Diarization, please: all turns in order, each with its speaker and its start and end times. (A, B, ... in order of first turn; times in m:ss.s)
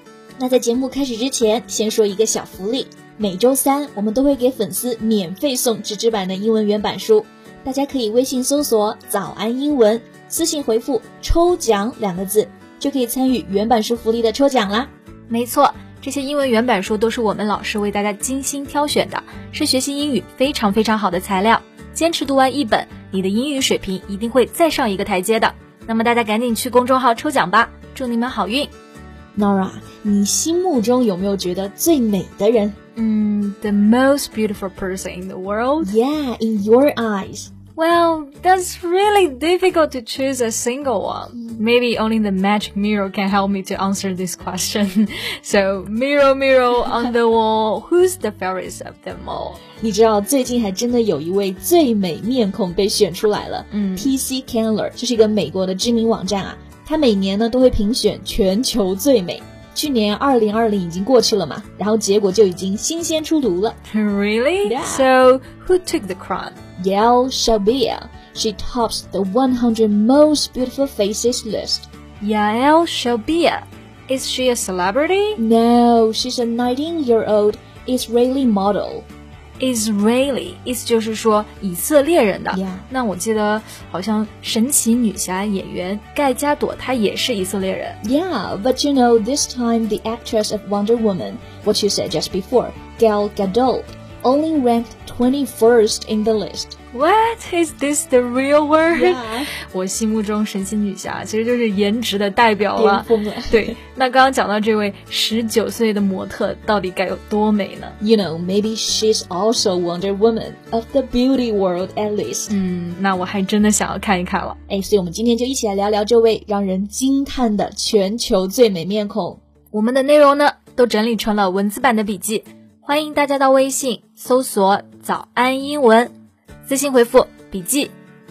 0:00.4-0:14.9 A
0:15.3-0:28.7 B
0:29.3-0:32.8 A
0:33.0-0:35.9 B
0:35.8-0:37.5 A
0:37.8-0:49.6 B
0:49.8-1:03.8 A
0:53.7-0:54.1 B
1:03.9-1:06.6 B
1:04.6-1:05.1 A
1:06.8-1:11.9 A
1:12.2-1:15.4 B
1:15.4-1:19.0 A
1:19.6-1:28.0 B
1:22.5-1:22.9 A
1:28.0-1:36.8 A
1:36.9-1:48.0 B
1:38.9-1:39.5 A
1:42.8-1:43.8 A
1:48.0-1:52.5 A
1:52.5-1:54.6 B
1:54.7-1:59.4 A
1:59.7-2:06.1 B
2:06.7-2:07.9 B